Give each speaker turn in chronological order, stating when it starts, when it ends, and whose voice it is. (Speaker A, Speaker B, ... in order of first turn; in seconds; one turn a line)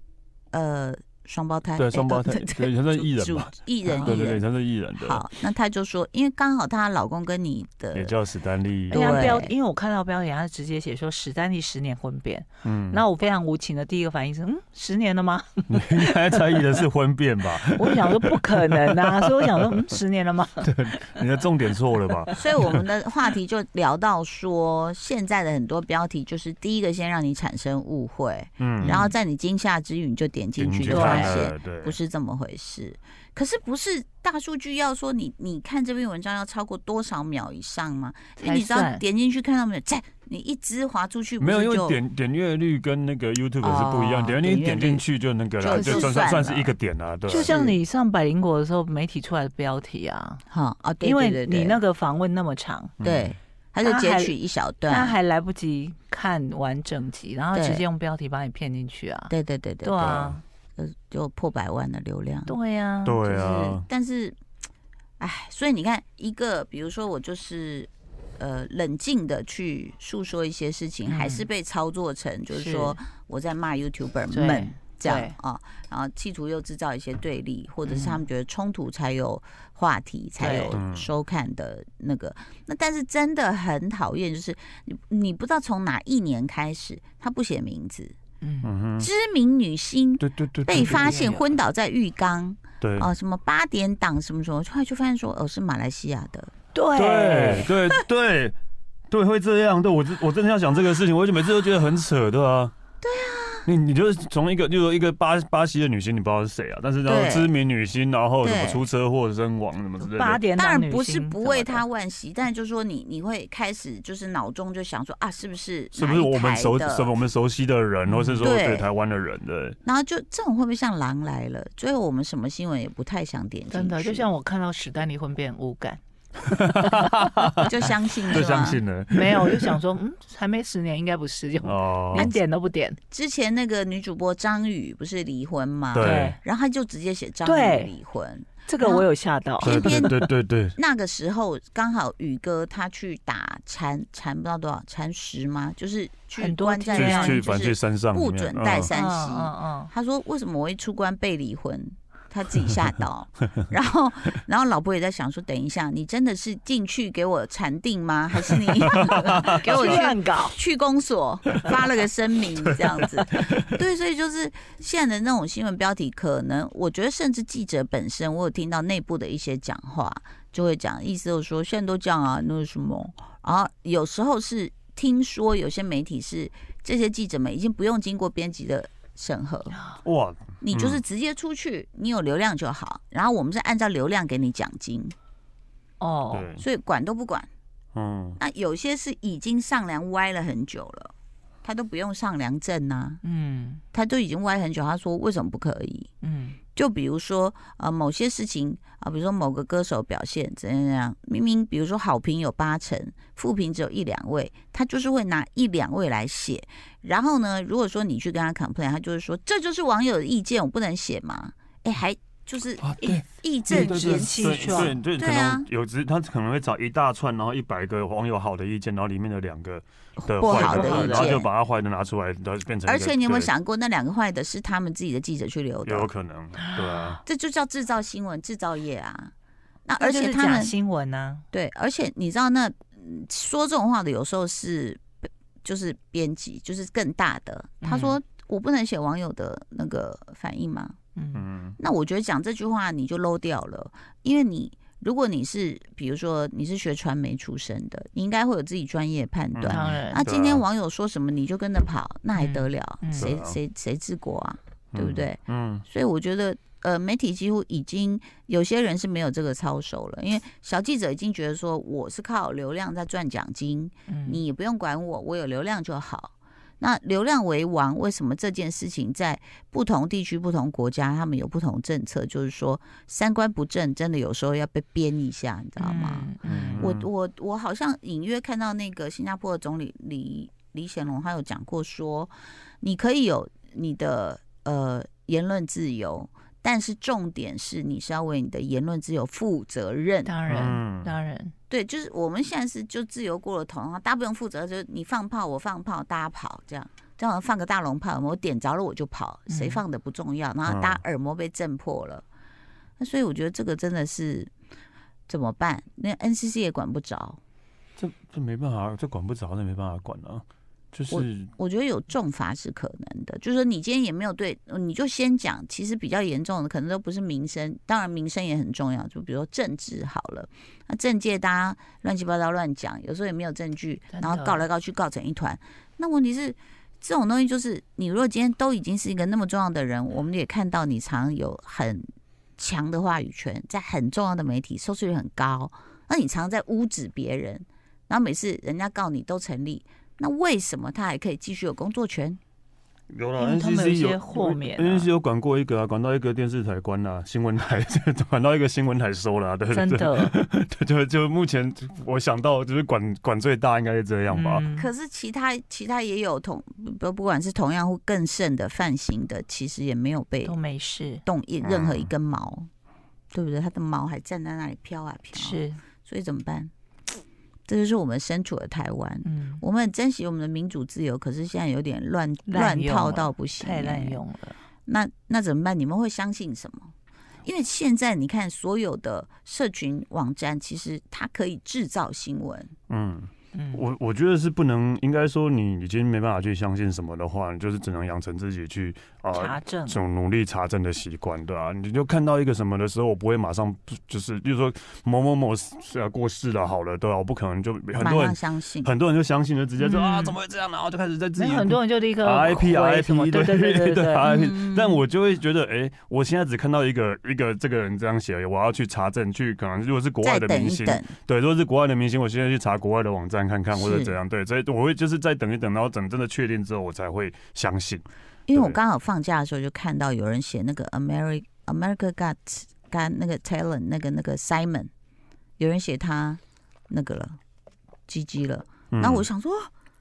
Speaker A: 0.5-8.2
Speaker B: 1.8-5.2
Speaker C: 3.9-4.2
Speaker B: 7.9-9.3
Speaker C: 8.9-16.6
Speaker A: 8.9-9.6
Speaker B: 12.6-13.0
Speaker B: 15.7-19.8
Speaker C: 17.6-21.2
Speaker B: 20.6-22.8
Speaker A: 22.3-42.0
Speaker B: 28.6-29.1
Speaker C: 28.8-29.2
Speaker B: 30.6-32.0
Speaker C: 30.8-31.5
Speaker C: 38.4-39.0
Speaker B: 41.4-47.6
Speaker A: 43.6-45.0
Speaker A: 45.6-46.7
Speaker C: 45.7-46.2
Speaker C: 47.3-50.4
Speaker A: 47.4-47.8
Speaker A: 50.5-51.8
Speaker C: 51.0-53.0
Speaker B: 53.0-53.4
Speaker A: 53.0-55.2
Speaker C: 53.8-60.4
Speaker A: 57.5-57.8
Speaker A: 59.3-62.5
Speaker C: 62.5-63.2
Speaker B: 63.0-63.9
Speaker A: 63.2-64.4
Speaker A: 65.2-88.2
Speaker C: 71.1-71.5
Speaker C: 72.5-73.0
Speaker C: 74.3-75.4
Speaker C: 77.8-78.2
Speaker C: 80.4-80.8
Speaker B: 80.7-81.1
Speaker C: 88.4-88.7
Speaker B: 88.6-89.1
Speaker A: 89.0-96.5
Speaker B: 90.2-91.2
Speaker C: 90.7-91.5
Speaker B: 92.8-93.1
Speaker C: 96.7-97.7
Speaker B: 97.0-98.6
Speaker B: 99.1-102.7
Speaker A: 103.0-103.7
Speaker B: 103.7-110.4
Speaker A: 107.0-107.5
Speaker A: 108.4-108.9
Speaker C: 110.0-111.9
Speaker A: 110.6-117.1
Speaker B: 115.9-119.8
Speaker C: 118.1-118.5
Speaker A: 118.4-118.9
Speaker A: 119.8-124.3
Speaker C: 123.7-126.0
Speaker B: 126.5-127.7
Speaker C: 126.8-127.5
Speaker A: 127.7-128.8
Speaker B: 128.3-129.8
Speaker C: 129.1-133.0
Speaker B: 131.6-132.3
Speaker A: 133.1-139.1
Speaker B: 135.9-136.3
Speaker C: 136.0-136.4
Speaker C: 137.4-137.9
Speaker C: 138.7-140.3
Speaker B: 139.6-140.8
Speaker A: 139.7-140.1
Speaker A: 140.8-179.8
Speaker C: 146.3-147.4
Speaker B: 146.9-148.9
Speaker C: 148.9-149.9
Speaker B: 158.8-160.0
Speaker C: 158.9-160.6
Speaker B: 163.3-163.8
Speaker C: 179.7-180.0
Speaker B: 180.0-181.0
Speaker A: 180.6-185.1
Speaker C: 186.0-186.5
Speaker B: 186.3-186.6
Speaker A: 186.6-187.5
Speaker B: 187.9-188.4
Speaker A: 188.4-193.2
Speaker C: 193.2-193.8
Speaker A: 193.9-196.1
Speaker C: 196.2-196.6
Speaker A: 196.8-215.7
Speaker B: 212.8-223.5
Speaker C: 213.7-215.0
Speaker A: 220.2-221.5
Speaker C: 220.5-221.4
Speaker A: 222.8-226.1
Speaker B: 225.8-227.2
Speaker C: 226.6-227.2
Speaker A: 227.2-229.3
Speaker A: 229.8-230.7
Speaker C: 230.0-231.4
Speaker A: 231.5-235.1
Speaker A: 235.6-241.0
Speaker C: 237.8-238.2
Speaker C: 241.2-241.4
Speaker B: 241.3-241.8
Speaker A: 241.8-290.3
Speaker B: 249.5-250.6
Speaker C: 249.7-250.2
Speaker C: 252.3-253.4
Speaker B: 253.2-253.6
Speaker B: 254.9-255.8
Speaker C: 264.1-264.4
Speaker C: 275.8-276.9
Speaker B: 276.4-277.1
Speaker C: 290.2-291.5
Speaker B: 290.5-291.1
Speaker A: 291.7-302.3
Speaker C: 299.5-299.8
Speaker B: 300.7-301.0
Speaker A: 303.0-304.5
Speaker A: 305.3-307.4
Speaker B: 308.0-311.5
Speaker A: 311.1-332.1
Speaker C: 324.1-324.6
Speaker A: 332.6-342.4
Speaker B: 343.1-354.7
Speaker C: 343.4-345.1
Speaker C: 349.7-350.3
Speaker C: 354.3-354.9
Speaker A: 354.8-360.6
Speaker C: 360.4-361.2
Speaker A: 361.2-362.7
Speaker B: 361.6-362.1
Speaker A: 363.3-366.7
Speaker C: 365.3-365.8
Speaker A: 367.7-374.2
Speaker C: 369.2-369.6
Speaker C: 372.5-374.6
Speaker A: 374.9-376.9
Speaker A: 377.4-382.7
Speaker B: 382.9-418.8
Speaker C: 383.5-383.8
Speaker C: 389.3-390.0
Speaker A: 397.9-398.9
Speaker C: 399.8-400.4
Speaker C: 401.4-404.3
Speaker A: 404.2-405.0
Speaker A: 410.2-411.1
Speaker A: 413.7-414.2
Speaker A: 418.5-424.9
Speaker A: 425.6-427.4
Speaker A: 428.1-429.7
Speaker B: 428.9-429.3